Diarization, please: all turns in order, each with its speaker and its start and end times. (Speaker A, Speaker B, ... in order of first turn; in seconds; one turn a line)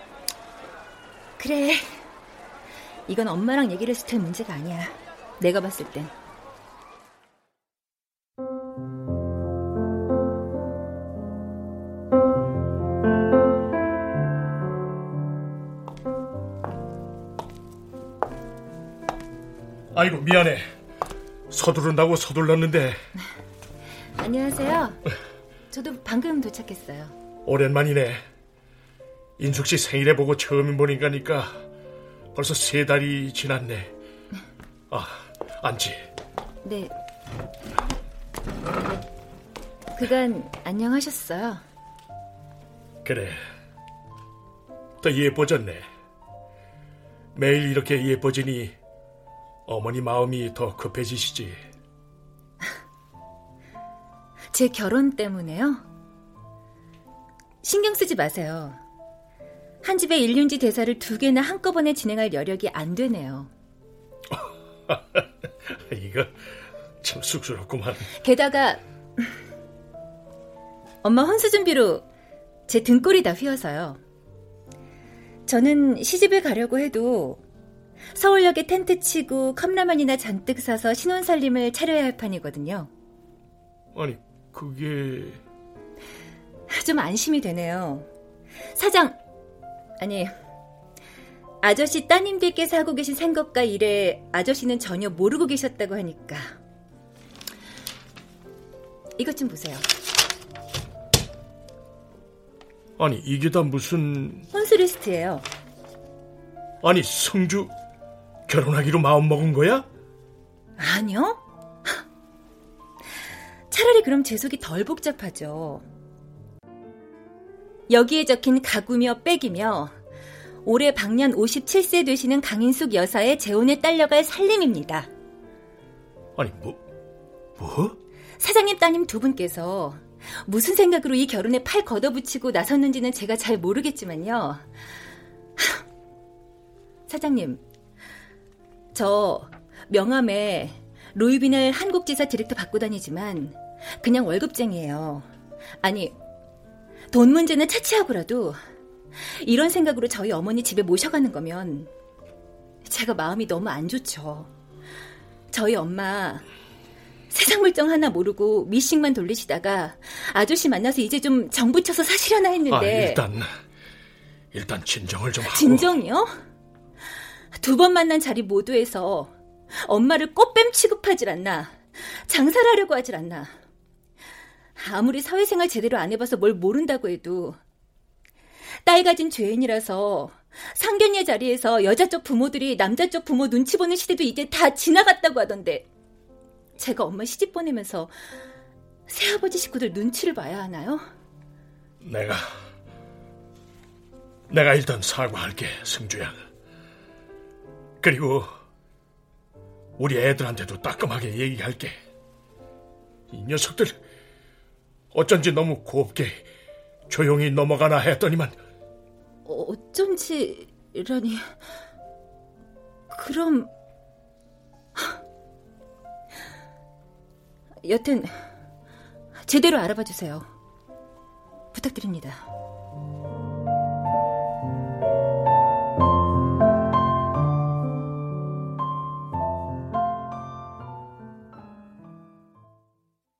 Speaker A: 1.4-2.0
Speaker A: 3.1-6.1
Speaker B: 19.9-20.7
Speaker B: 21.5-23.1
Speaker A: 24.2-25.0
Speaker A: 25.7-27.1
Speaker B: 27.4-28.2
Speaker B: 29.4-31.6
Speaker B: 32.4-33.9
Speaker B: 34.9-36.1
Speaker A: 36.6-36.9
Speaker A: 40.0-41.6
Speaker B: 43.0-43.4
Speaker B: 45.0-45.9
Speaker B: 47.4-48.7
Speaker B: 49.7-51.6
Speaker A: 54.5-55.8
Speaker A: 57.6-58.8
Speaker A: 59.8-63.5
Speaker B: 64.3-66.4
Speaker B: 67.0-68.1
Speaker A: 68.2-69.3
Speaker A: 71.0-72.0
Speaker A: 72.7-74.0
Speaker A: 75.5-77.4
Speaker A: 78.1-82.9
Speaker B: 83.9-85.4
Speaker A: 86.7-88.1
Speaker A: 88.7-89.2
Speaker A: 90.0-90.3
Speaker A: 91.6-96.5
Speaker A: 99.2-99.9
Speaker B: 103.0-104.5
Speaker A: 104.5-105.4
Speaker B: 106.8-107.7
Speaker B: 108.5-109.9
Speaker A: 110.8-112.0
Speaker A: 113.7-115.8
Speaker A: 117.9-119.9
Speaker A: 120.6-125.1
Speaker B: 126.4-126.8
Speaker B: 127.6-128.0
Speaker A: 128.4-134.7
Speaker A: 135.6-135.8
Speaker A: 137.1-137.6
Speaker A: 138.9-145.3
Speaker A: 145.8-146.1
Speaker A: 147.1-148.6
Speaker A: 149.2-151.9
Speaker A: 152.8-154.5
Speaker A: 155.5-156.4
Speaker A: 157.3-163.2
Speaker B: 162.7-163.5
Speaker B: 164.5-165.9
Speaker A: 165.5-166.3
Speaker A: 167.6-173.5
Speaker A: 174.8-177.6
Speaker A: 178.8-185.8
Speaker A: 186.8-188.1
Speaker A: 189.1-191.1
Speaker B: 192.0-192.5
Speaker B: 194.5-196.4
Speaker B: 198.0-198.5
Speaker B: 200.0-202.0
Speaker B: 203.3-204.0
Speaker B: 205.1-206.4
Speaker B: 207.1-208.6
Speaker A: 209.4-211.6
Speaker A: 213.1-213.7
Speaker A: 217.8-218.5
Speaker A: 219.4-220.5
Speaker A: 221.7-222.4